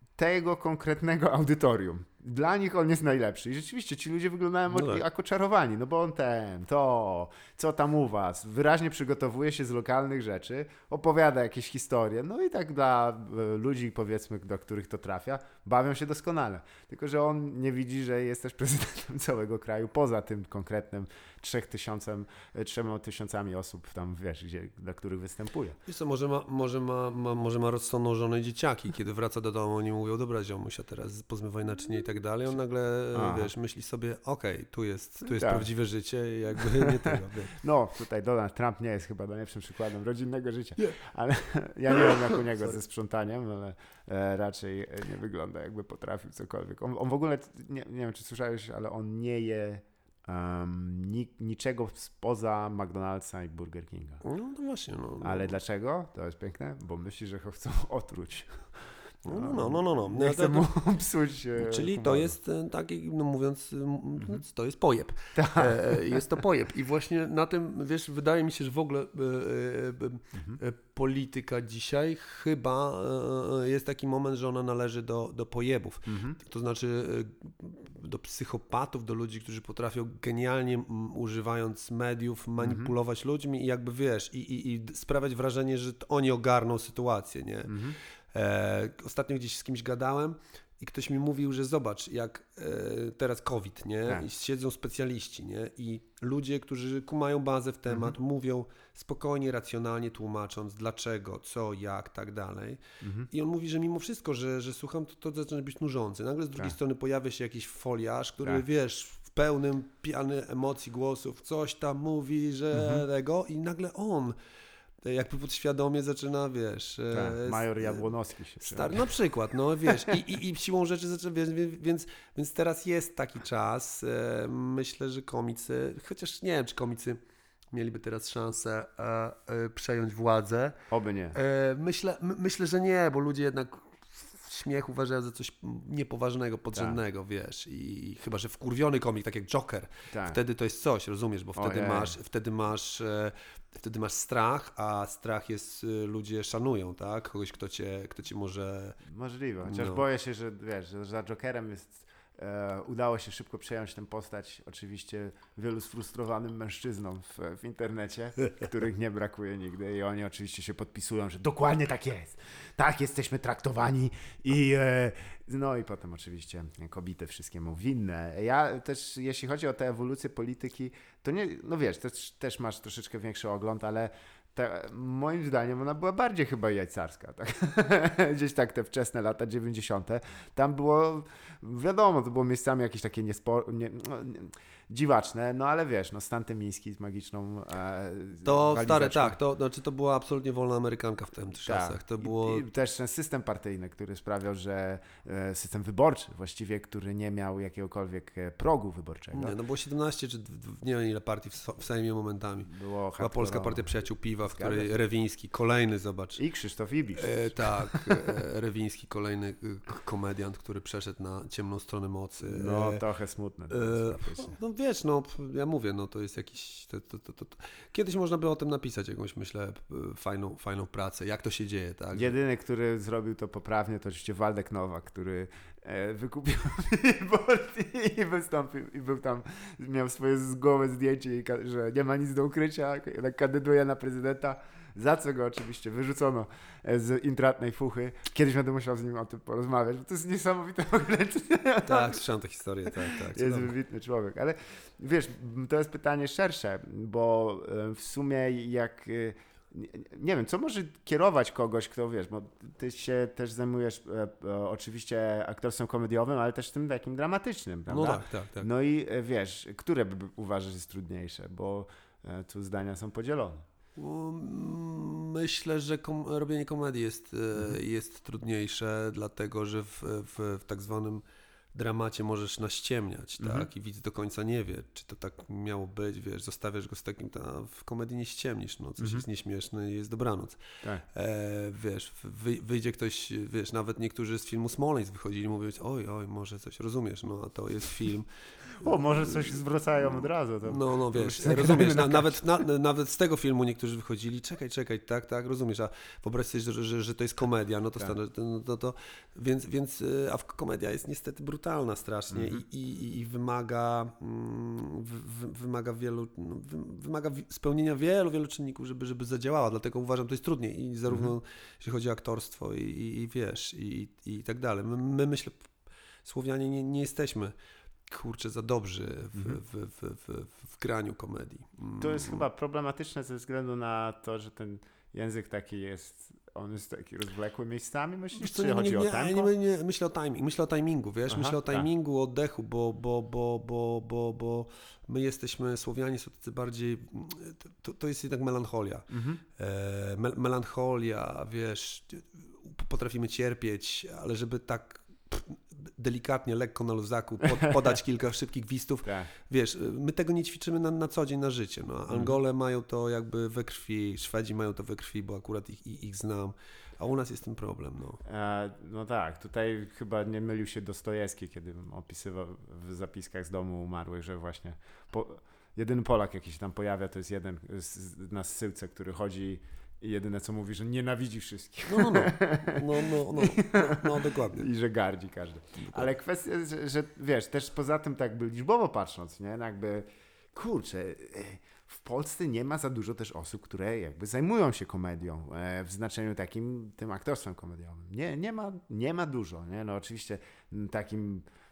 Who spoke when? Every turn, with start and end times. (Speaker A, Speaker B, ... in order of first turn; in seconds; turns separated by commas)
Speaker A: 0.2-25.8, Speaker B: 4.7-5.0, Speaker B: 25.9-37.6, Speaker A: 33.1-33.5, Speaker A: 35.3-35.7, Speaker A: 36.8-54.2, Speaker B: 54.2-55.5, Speaker A: 55.2-62.4, Speaker B: 59.2-60.7, Speaker B: 61.6-114.4, Speaker A: 65.4-66.4, Speaker A: 70.3-70.6, Speaker A: 76.1-76.4, Speaker A: 82.6-82.9, Speaker A: 87.7-88.0, Speaker A: 97.9-98.1, Speaker A: 103.0-103.3, Speaker A: 112.7-113.0, Speaker B: 115.0-118.1, Speaker A: 117.1-119.1, Speaker B: 118.6-127.2, Speaker B: 127.7-130.8, Speaker A: 130.9-131.4, Speaker B: 131.3-149.0, Speaker A: 140.1-140.4, Speaker A: 141.6-142.1, Speaker A: 149.1-189.4, Speaker B: 149.7-150.0, Speaker B: 188.4-192.6, Speaker A: 191.6-199.6, Speaker B: 199.3-206.4, Speaker A: 202.7-203.9, Speaker A: 204.4-204.9, Speaker A: 206.4-208.4, Speaker B: 207.2-213.0, Speaker A: 212.4-214.6, Speaker B: 213.7-222.3, Speaker A: 222.1-242.2, Speaker B: 241.9-243.7, Speaker A: 242.9-263.6, Speaker B: 257.9-258.7, Speaker B: 263.9-288.3, Speaker A: 273.4-273.7, Speaker A: 279.0-279.2, Speaker A: 288.7-292.4, Speaker B: 290.6-315.7, Speaker A: 302.3-302.6, Speaker A: 311.1-311.3, Speaker B: 316.2-317.5, Speaker B: 318.1-322.4, Speaker A: 322.0-329.5, Speaker B: 328.4-358.2, Speaker A: 331.3-331.9, Speaker A: 339.1-339.4, Speaker A: 349.1-349.3, Speaker A: 352.1-352.4, Speaker A: 358.2-391.4, Speaker B: 371.9-374.7, Speaker B: 375.8-376.1